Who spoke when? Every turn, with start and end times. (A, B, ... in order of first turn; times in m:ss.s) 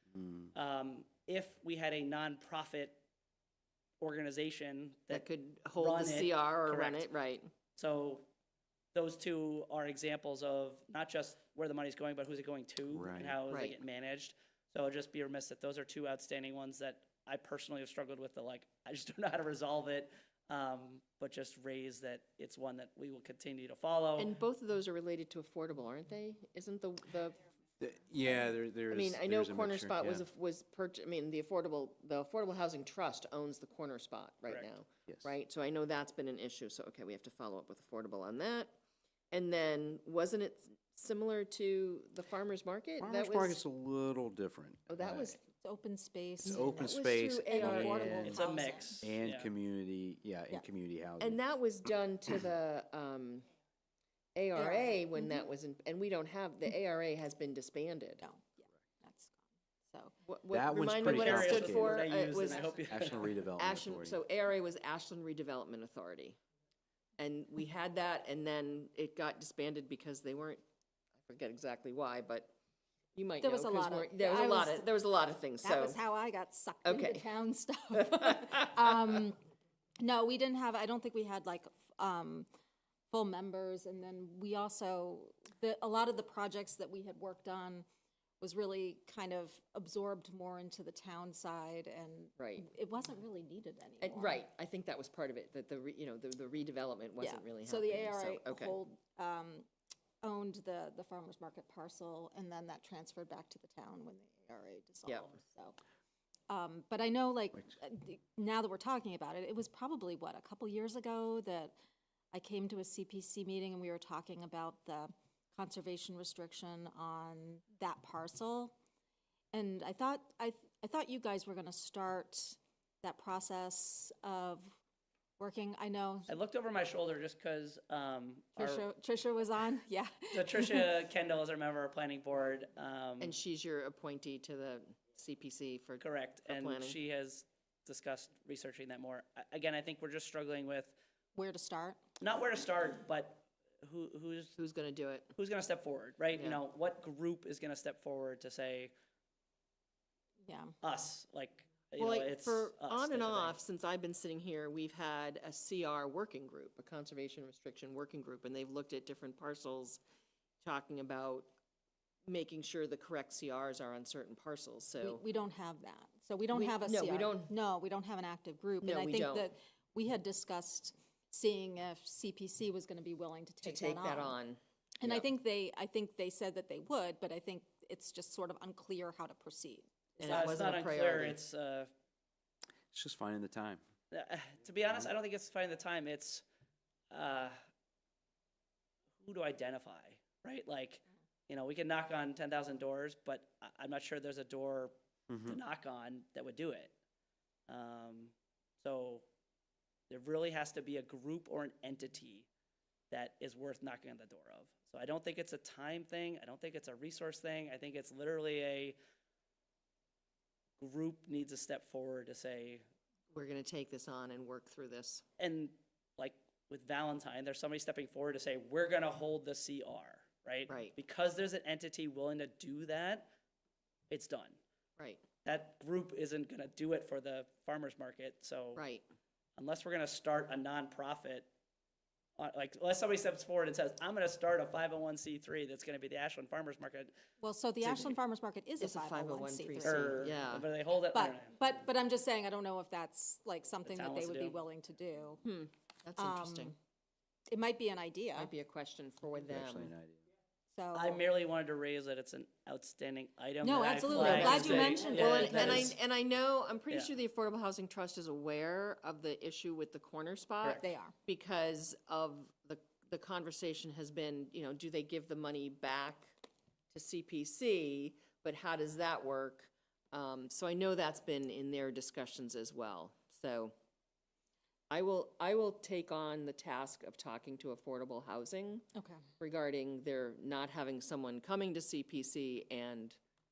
0:00.2-0:00.5 A
0:00.5-0:03.0 B
0:04.0-0:07.1 B
0:05.1-0:07.5 C
0:07.8-0:08.2 B
0:08.9-0:24.3 B
0:12.9-0:13.4 A
0:13.5-0:13.8 C
0:24.2-0:27.4 C
0:27.8-0:30.2 A
0:28.9-0:38.7 C
0:39.3-0:43.6 C
0:43.0-0:45.3 A
0:44.9-0:45.4 C
0:45.6-0:49.1 D
0:46.4-0:48.4 A
0:46.4-0:48.1 C
0:48.2-0:49.5 B
0:49.0-0:51.4 A
0:51.2-0:53.4 C
0:54.3-0:58.2 C
0:54.6-0:55.5 D
0:58.2-1:00.2 D
1:00.2-1:02.8 C
1:00.5-1:02.1 A
1:01.0-1:03.3 B
1:02.8-1:04.2 A
1:03.6-1:06.4 C
1:07.2-1:10.6 C
1:11.2-1:12.5 C
1:13.1-1:16.0 C
1:13.4-1:14.9 D
1:15.6-1:19.4 D
1:16.8-1:17.2 C
1:20.0-1:22.5 D
1:23.1-1:27.8 D
1:28.4-1:34.4 D
1:32.4-1:32.6 C
1:34.0-1:38.7 C
1:37.2-1:39.7 D
1:40.2-1:45.8 D
1:46.5-1:51.8 D
1:52.3-1:58.8 D
1:59.5-2:04.8 D
2:05.4-2:06.3 D
2:06.3-2:08.8 B
2:08.6-2:10.9 D
2:10.3-2:13.4 B
2:13.2-2:17.0 C
2:16.0-2:21.0 B
2:21.3-2:22.0 D
2:22.2-2:24.6 B
2:24.6-2:25.3 C
2:25.3-2:28.9 B
2:26.3-2:26.6 C
2:30.4-2:30.7 D
2:30.8-2:33.6 B
2:32.0-2:40.0 C
2:40.6-2:41.5 C
2:42.3-2:45.2 C
2:45.0-2:54.4 D
2:46.5-2:47.5 C
2:48.8-2:49.5 C
2:53.6-2:54.6 C
2:55.0-3:00.8 D
3:00.2-3:01.4 C
3:00.2-3:01.9 B
3:02.9-3:03.8 A
3:04.1-3:06.4 B
3:07.1-3:07.6 B
3:09.2-3:14.9 B
3:15.3-3:15.6 A
3:15.4-3:16.9 B
3:17.7-3:19.3 B
3:20.1-3:22.5 B
3:23.1-3:29.0 B
3:30.8-3:32.8 B
3:33.3-3:35.2 C
3:35.4-3:43.3 B
3:40.7-3:40.9 C
3:44.1-3:44.6 B
3:45.4-3:48.8 B
3:48.8-3:49.0 C
3:49.6-3:51.5 B
3:52.4-3:57.1 B
3:57.4-4:00.3 D
3:57.8-3:58.1 C
3:58.8-4:00.7 C
3:59.8-4:01.6 B
4:01.1-4:05.4 D
4:03.8-4:04.6 B
4:05.4-4:06.7 C
4:06.2-4:06.8 D
4:07.5-4:08.5 D
4:08.4-4:09.9 C
4:09.5-4:10.2 A
4:10.7-4:11.2 D
4:10.9-4:16.0 B
4:13.6-4:15.7 D
4:14.2-4:26.4 C
4:20.8-4:21.2 D
4:26.9-4:33.7 C
4:34.9-4:38.8 C
4:38.9-4:39.3 D
4:39.4-4:43.2 C